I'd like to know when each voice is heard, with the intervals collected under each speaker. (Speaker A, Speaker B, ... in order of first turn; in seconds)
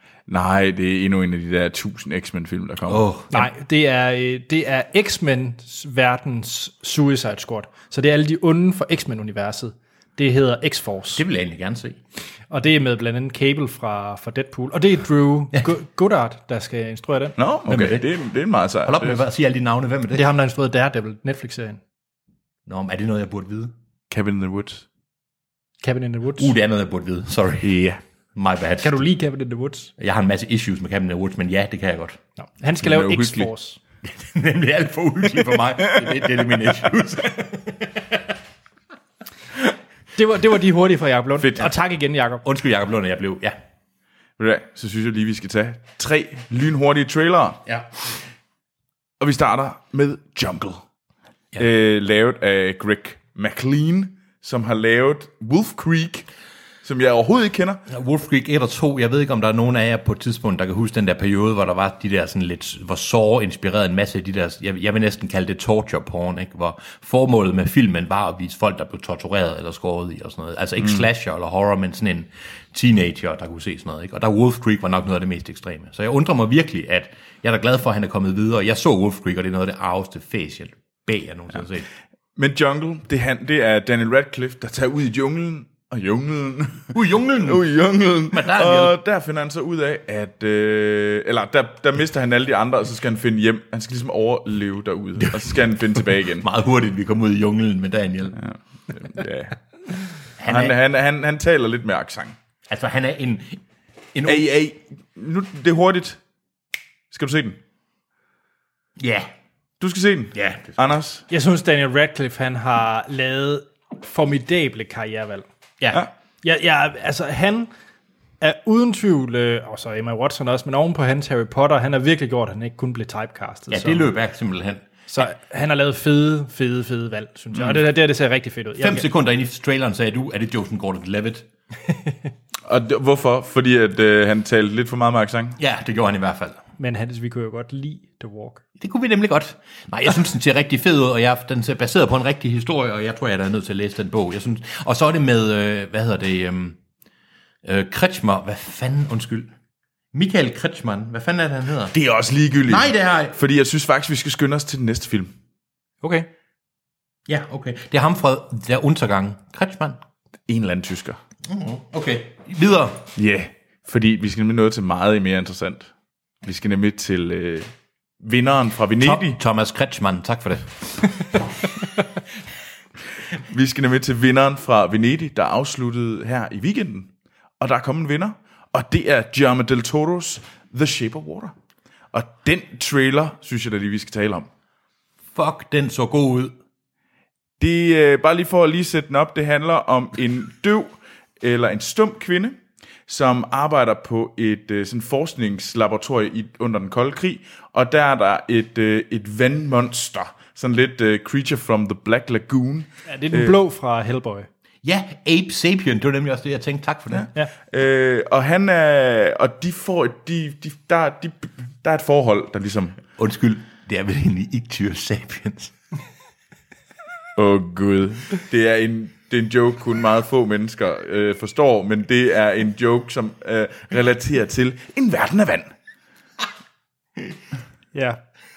Speaker A: 0.3-3.1, 17.4-19.2, 24.1-24.8, 27.6-28.0, 32.8-33.5, 44.4-47.6, 49.2-50.8, 51.5-56.3, 56.8-57.8, 82.3-96.5, 98.4-99.6, 100.4-102.3, 104.2-106.2, 107.1-107.6, 109.8-111.2, 127.5-127.8, 132.7-135.6, 151.9-155.3, 160.5-161.2, 163.2-165.9, 166.4-167.7, 168.2-169.4, 173.4-181.5, 182.1-184.5, 187.6-203.6, 207.1-213.0, 217.3-225.7
Speaker B: 2.9-3.5, 11.1-12.0, 17.7-18.1, 18.8-20.3, 22.6-23.7, 26.4-27.8, 28.3-29.0, 30.0-32.2, 34.0-38.3, 42.4-43.5, 47.6-47.9, 57.9-81.9, 86.9-87.7, 88.3-89.0, 95.2-98.4, 100.4-100.7, 102.7-103.6, 104.1-104.5, 109.0-109.3, 110.3-110.9, 115.8-116.1, 123.7-124.8, 128.8-131.5, 135.6-136.6, 138.8-146.8, 147.6-149.5, 150.1-151.9, 152.7-153.4, 157.3-160.0, 161.4-163.0, 169.0-171.4, 185.3-186.5, 204.8-207.3, 213.2-215.7
Speaker C: 3.3-11.2, 12.5-17.4, 20.1-21.8, 25.8-26.5, 28.8-29.9, 32.4-33.8, 40.1-42.4, 111.3-115.5, 116.4-117.7, 118.4-124.1, 125.1-129.0, 136.8-138.6, 203.1-204.5, 227.9-228.2